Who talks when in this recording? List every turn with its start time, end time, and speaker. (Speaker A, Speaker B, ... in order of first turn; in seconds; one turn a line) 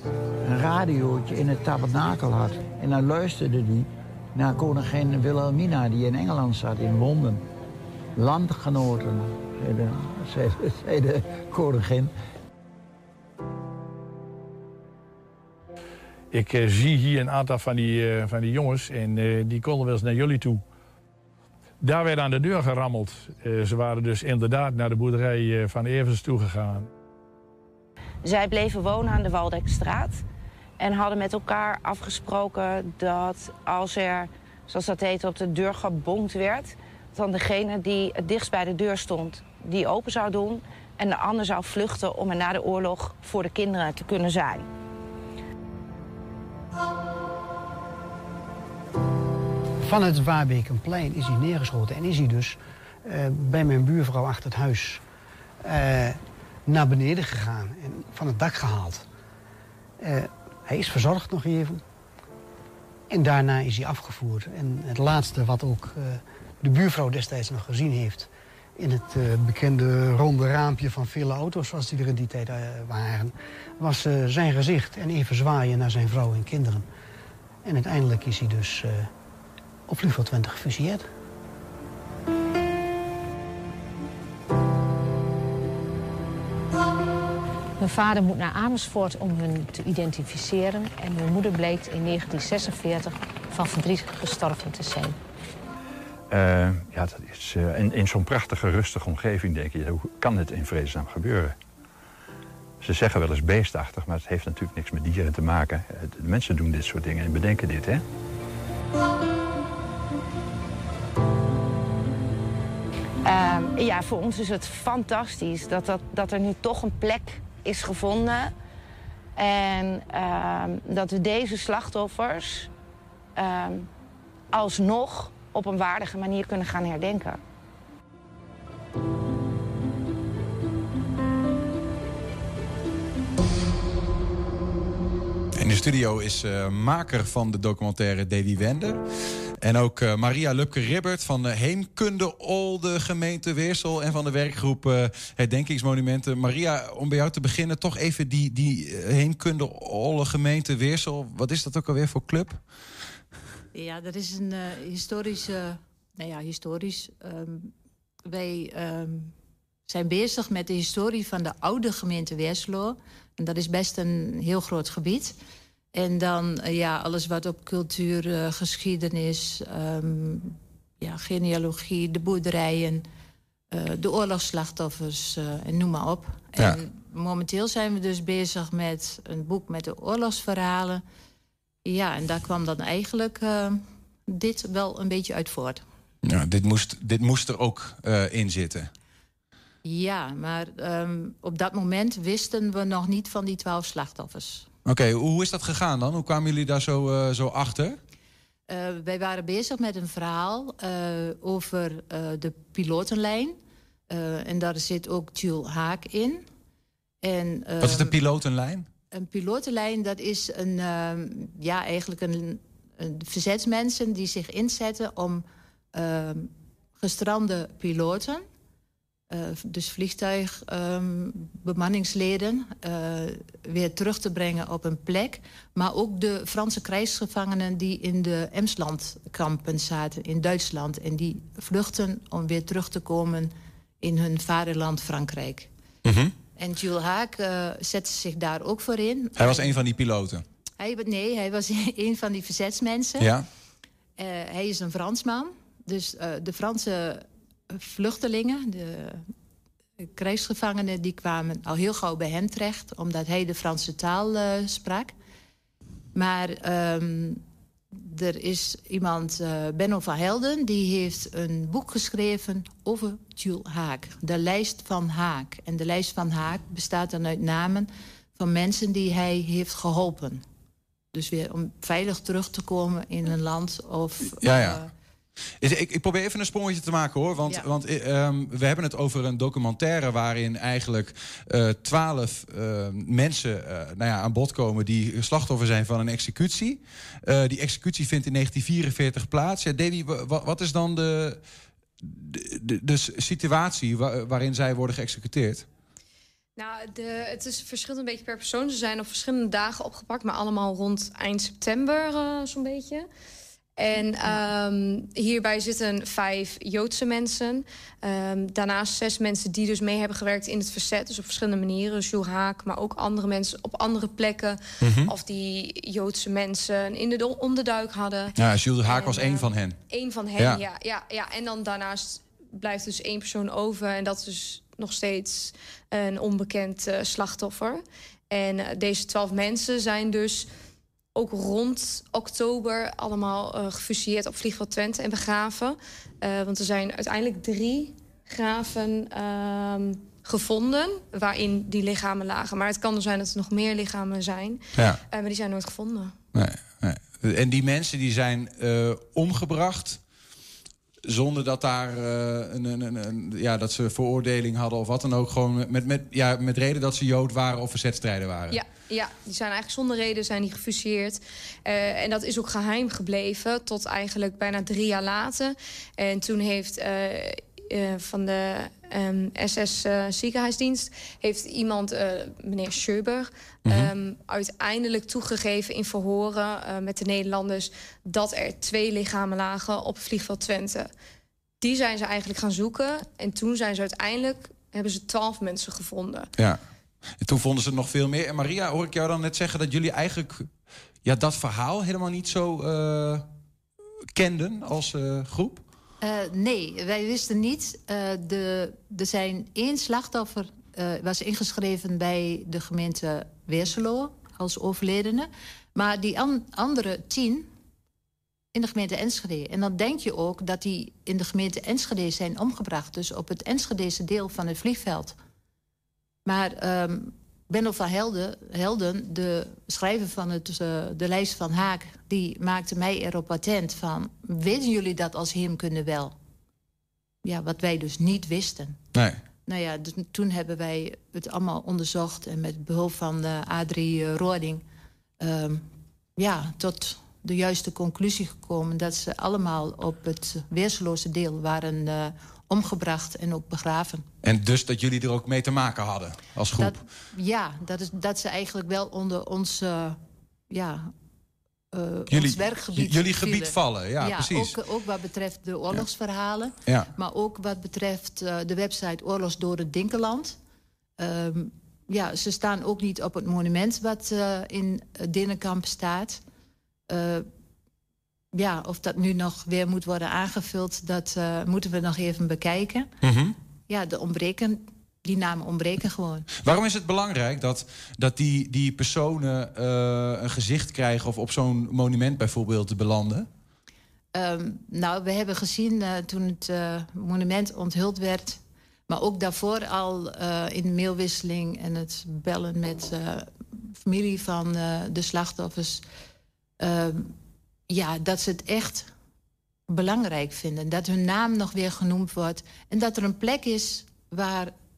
Speaker A: 0.4-7.4
Speaker A: 8.2-12.1
Speaker B: 16.3-20.6
Speaker B: 21.8-26.9
Speaker C: 28.2-30.2
Speaker C: 30.8-44.7
Speaker D: 49.8-55.0
Speaker D: 55.6-59.0
Speaker D: 60.0-61.8
Speaker D: 63.1-76.9
Speaker D: 77.6-79.1
Speaker D: 79.9-81.1
Speaker E: 87.8-95.2
Speaker F: 96.3-101.6
Speaker F: 102.8-108.0
Speaker C: 113.2-118.5
Speaker C: 119.3-122.7
Speaker C: 123.3-123.9
Speaker C: 124.5-127.4
Speaker G: 135.5-139.0
Speaker G: 139.6-152.6
Speaker H: 153.7-157.7
Speaker H: 158.3-159.3
Speaker H: 159.9-165.3
Speaker H: 165.9-173.0
Speaker H: 173.7-181.0
Speaker H: 181.8-185.8
Speaker G: 186.2-188.9
Speaker H: 189.8-194.7
Speaker G: 194.8-198.0
Speaker H: 198.7-203.6
Speaker H: 204.1-206.4
Speaker H: 207.2-208.2
Speaker G: 207.8-208.9
Speaker H: 209.1-218.4
Speaker H: 219.3-235.7
Speaker G: 236.0-236.3
Speaker H: 236.6-239.7
Speaker G: 239.3-240.4
Speaker H: 240.8-243.3
Speaker G: 243.2-243.4
Speaker H: 244.2-249.2
Speaker H: 250.0-255.1
Speaker H: 256.1-257.4
Speaker H: 257.9-270.4
Speaker H: 271.1-274.9
Speaker G: 274.4-274.8
Speaker G: 275.6-291.4
Speaker G: 292.0-295.6
Speaker I: 296.6-303.1
Speaker I: 303.8-318.3
Speaker G: 314.8-315.1
Speaker G: 318.3-319.8
Speaker I: 318.9-330.5
Speaker G: 320.4-320.6
Speaker I: 331.1-346.1
Speaker G: 344.7-345.0
Speaker G: 346.3-350.0
Speaker G: 351.1-358.6
Speaker I: 358.5-380.9
Speaker G: 373.6-373.9
Speaker I: 381.6-386.3
Speaker G: 387.2-390.5
Speaker G: 391.0-393.2
Speaker G: 394.1-395.6
Speaker H: 396.0-407.5
Speaker H: 408.5-415.1
Speaker H: 416.2-426.1
Speaker H: 427.2-428.8
Speaker G: 428.9-429.2
Speaker H: 429.5-434.6
Speaker H: 435.2-435.6
Speaker H: 436.2-444.1
Speaker G: 444.2-446.7
Speaker H: 446.5-450.0
Speaker H: 450.5-450.9
Speaker H: 451.7-460.4
Speaker G: 452.1-454.6
Speaker G: 456.6-456.9
Speaker H: 461.0-466.2
Speaker H: 466.9-467.2
Speaker H: 468.3-472.9
Speaker G: 473.0-473.4
Speaker H: 473.7-476.3
Speaker G: 476.4-483.3
Speaker H: 484.1-495.8
Speaker H: 496.6-497.1
Speaker H: 497.7-498.9
Speaker H: 499.7-504.5